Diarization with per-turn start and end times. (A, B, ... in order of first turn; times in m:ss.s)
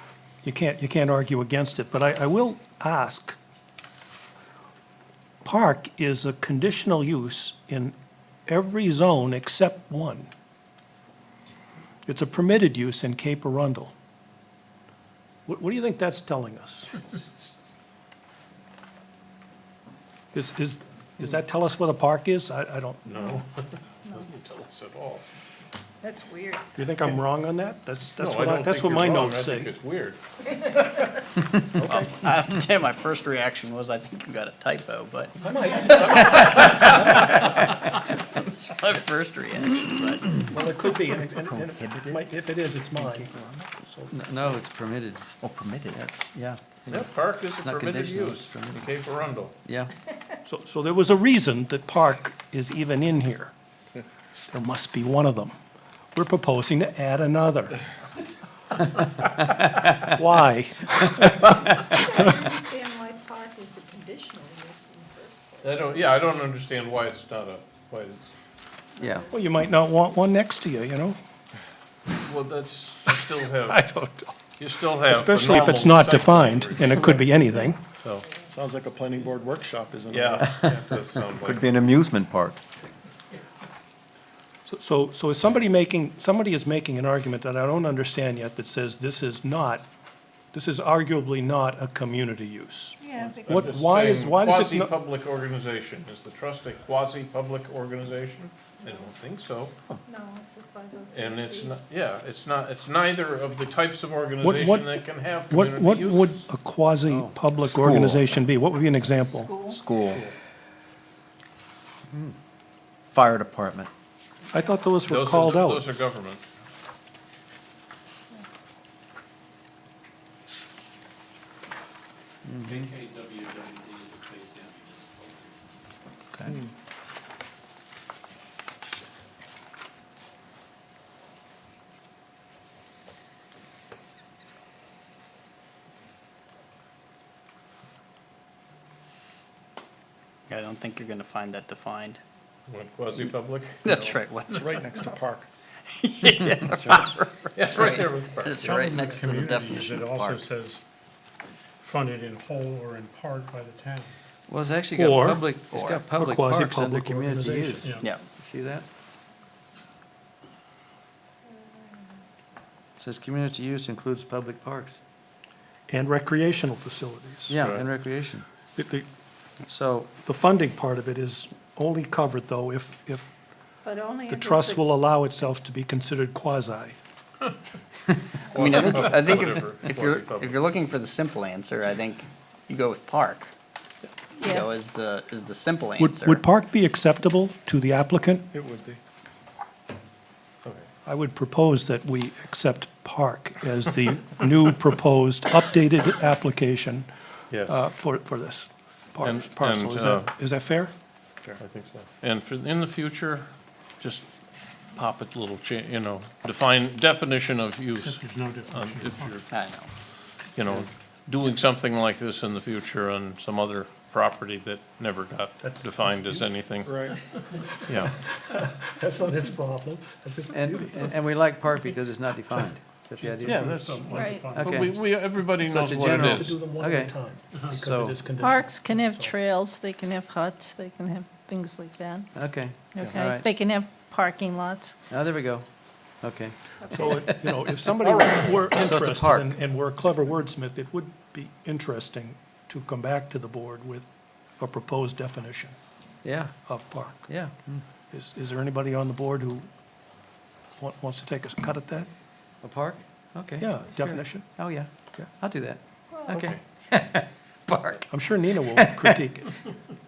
0:00.4-0:03.4 A
0:05.4-0:07.9 A
0:08.5-0:10.3 A
0:12.1-0:13.9 A
0:15.5-0:17.0 A
0:20.3-0:23.4 A
0:23.1-0:23.4 B
0:24.0-0:25.2 B
0:26.0-0:26.6 C
0:26.7-0:29.7 A
0:28.2-0:30.2 B
0:31.7-0:32.3 A
0:31.9-0:40.5 D
0:35.4-0:37.4 A
0:40.5-0:43.3 A
0:41.1-0:42.2 E
0:43.0-0:43.8 E
0:44.1-0:45.3 F
0:45.4-0:46.2 E
0:45.9-0:48.9 F
0:46.9-0:49.5 B
0:49.6-0:49.9 F
0:50.4-0:53.5 A
0:54.5-0:55.5 A
0:56.1-0:57.8 A
1:00.0-1:02.0 A
1:01.9-1:05.8 C
1:05.6-1:08.3 B
1:09.0-1:09.3 C
1:09.0-1:09.2 F
1:09.3-1:11.2 A
1:12.2-1:13.8 B
1:13.6-1:14.4 A
1:14.6-1:17.1 B
1:15.0-1:17.8 A
1:17.9-1:18.2 B
1:18.4-1:20.7 G
1:20.1-1:21.7 B
1:21.3-1:22.6 E
1:24.7-1:29.8 A
1:30.5-1:34.9 A
1:33.0-1:33.8 C
1:33.3-1:39.7 B
1:40.1-1:41.7 C
1:41.1-1:46.4 B
1:44.4-1:49.5 A
1:47.1-1:47.4 F
1:47.6-1:48.3 E
1:49.2-1:49.8 C
1:49.6-1:50.2 E
1:53.1-1:53.9 E
1:54.5-1:55.9 A
1:55.1-1:56.4 B
2:02.4-2:02.9 F
2:03.2-2:04.2 E
2:20.5-2:22.2 D
2:22.7-2:24.1 B
2:23.8-2:25.1 D
2:24.5-2:25.5 G
2:25.9-2:30.4 D
2:27.5-2:28.9 B
2:28.6-2:30.8 H
2:31.8-2:34.2 H
2:34.5-2:38.8 F
2:34.9-2:35.5 A
2:36.1-2:37.9 A
2:37.8-2:38.1 H
2:43.0-2:45.0 F
2:45.9-2:47.6 A
2:47.5-2:48.4 F
2:47.6-2:47.8 B
2:48.8-2:49.0 A
2:49.7-2:50.1 F
2:50.2-2:53.3 A
2:53.8-2:54.9 C
2:54.3-2:57.0 A
2:58.5-3:00.7 B
2:58.5-3:03.5 D
3:04.4-3:04.7 C
3:04.4-3:06.4 D
3:06.0-3:08.4 A
3:08.5-3:09.0 G
3:11.0-3:17.1 A
3:17.5-3:17.8 B
3:17.7-3:20.9 A
3:19.2-3:20.3 B
3:21.6-3:23.5 B
3:24.0-3:24.3 B
3:24.9-3:29.4 B
3:28.0-3:29.4 H
3:29.5-3:29.9 D
3:30.5-3:36.9 B
3:35.6-3:36.4 A
3:36.8-3:37.2 G
3:37.9-3:38.1 B
3:38.3-3:41.1 A
3:40.5-3:43.6 F
3:43.2-3:45.0 H
3:43.4-3:46.6 B
3:44.1-3:44.6 C
3:44.5-3:47.1 F
3:46.2-3:49.3 A
3:47.7-3:48.2 F
3:48.4-3:52.3 C
3:52.3-3:53.5 F
3:52.9-3:54.9 C
3:55.1-3:55.6 F
3:56.2-3:57.7 F
3:56.9-4:05.8 A
3:58.0-3:58.7 B
3:58.7-3:59.5 F
4:06.2-4:06.6 F
4:06.6-4:07.3 A
4:07.3-4:07.8 F
4:08.1-4:09.7 A
4:10.8-4:12.1 A
4:12.6-4:18.1 F
4:13.6-4:14.5 A
4:16.3-4:16.6 B
4:18.1-4:19.6 A
4:18.8-4:19.1 F